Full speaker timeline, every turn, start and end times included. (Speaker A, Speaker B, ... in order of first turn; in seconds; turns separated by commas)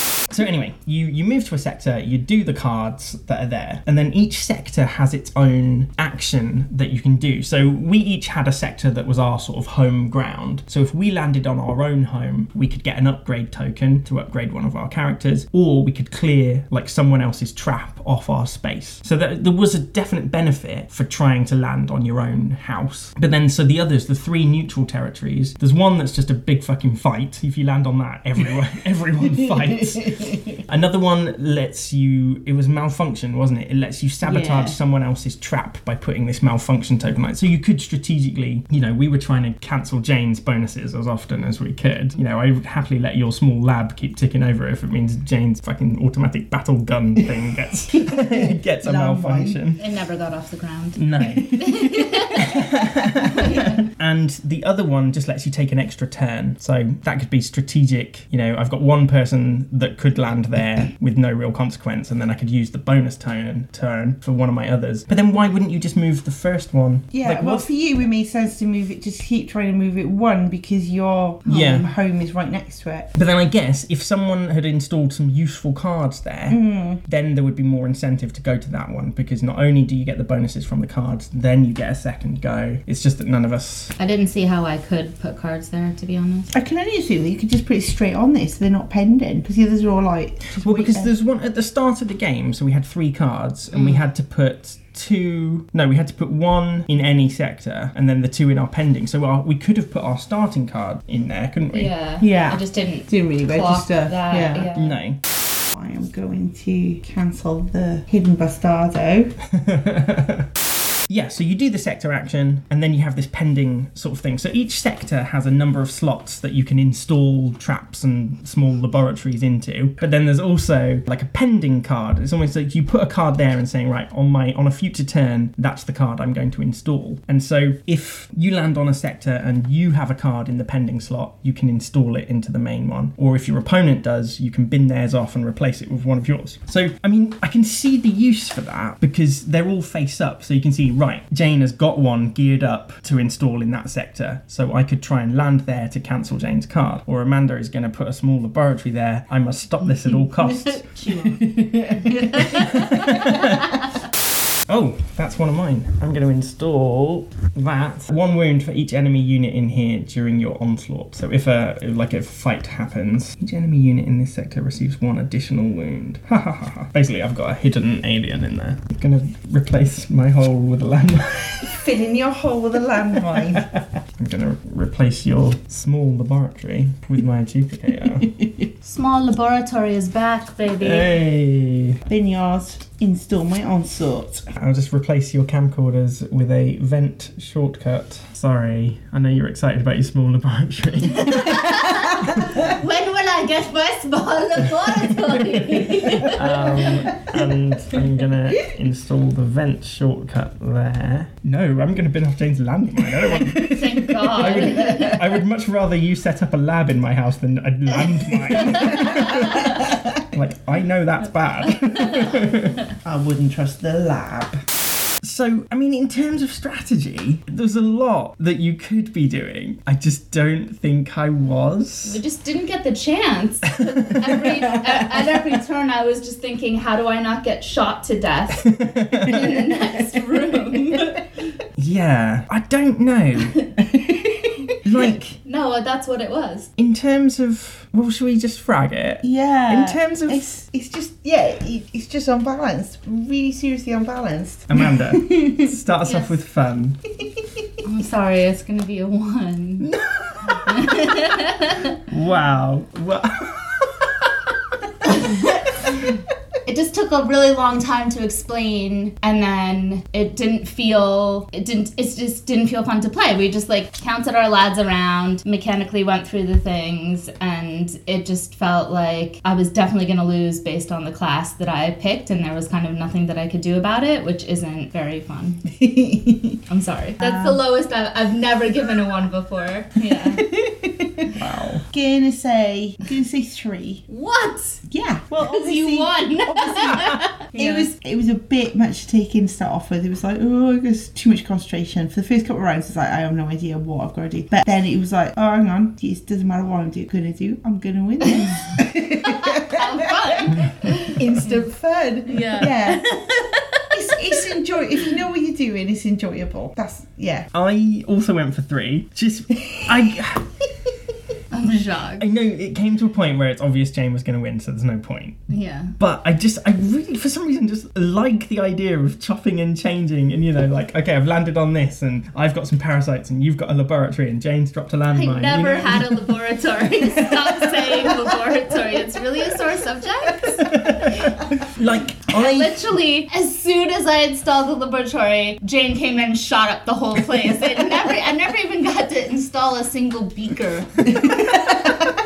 Speaker A: 0.3-49.8, Speaker B: 29.4-30.6, Speaker C: 34.2-34.8, Speaker B: 47.9-49.6, Speaker C: 49.8-52.6, Speaker A: 51.0-67.7, Speaker C: 53.3-53.8, Speaker B: 67.1-73.1, Speaker C: 71.5-71.8, Speaker A: 71.5-71.9, Speaker A: 73.2-83.9, Speaker B: 76.5-77.0, Speaker C: 84.0-86.5, Speaker B: 86.5-91.1, Speaker A: 90.6-101.9, Speaker C: 93.7-94.1, Speaker C: 101.7-105.0, Speaker B: 102.2-104.7, Speaker A: 104.8-105.2, Speaker B: 105.7-109.3, Speaker A: 109.5-110.5, Speaker A: 111.1-150.9, Speaker C: 150.1-151.4, Speaker B: 151.4-152.1, Speaker C: 152.0-153.9, Speaker A: 152.3-153.7, Speaker A: 154.7-171.8, Speaker B: 171.7-173.7, Speaker A: 173.3-178.3, Speaker B: 178.4-178.7, Speaker C: 178.8-181.1, Speaker A: 180.8-182.0, Speaker B: 182.1-184.5, Speaker A: 184.6-191.8, Speaker C: 191.1-197.1, Speaker A: 196.3-212.8, Speaker C: 203.4-205.2, Speaker B: 208.7-210.1, Speaker B: 213.0-214.6, Speaker A: 215.2-222.2, Speaker C: 222.1-228.7, Speaker A: 228.6-229.6, Speaker C: 229.2-231.3, Speaker A: 231.8-233.6, Speaker B: 233.8-234.7, Speaker A: 234.8-235.4, Speaker C: 235.4-236.7, Speaker A: 236.8-240.5, Speaker B: 239.2-245.7, Speaker A: 244.7-247.0, Speaker C: 246.1-246.3, Speaker C: 247.8-249.9, Speaker A: 249.8-251.1, Speaker C: 250.7-251.9, Speaker A: 252.1-254.5, Speaker C: 255.0-256.1, Speaker C: 256.6-275.6, Speaker B: 275.7-276.6, Speaker C: 276.7-280.5, Speaker B: 277.2-277.6, Speaker B: 280.4-281.3, Speaker A: 281.4-281.8, Speaker B: 281.9-284.1, Speaker C: 284.1-284.8, Speaker B: 284.9-303.2, Speaker C: 285.4-287.9, Speaker C: 298.3-301.6, Speaker C: 302.3-304.4, Speaker B: 303.9-307.5, Speaker A: 307.5-310.6, Speaker C: 311.5-312.3, Speaker A: 312.2-326.4, Speaker C: 315.5-315.9, Speaker C: 325.1-331.2, Speaker A: 330.6-332.9, Speaker C: 332.3-341.8, Speaker B: 341.2-342.1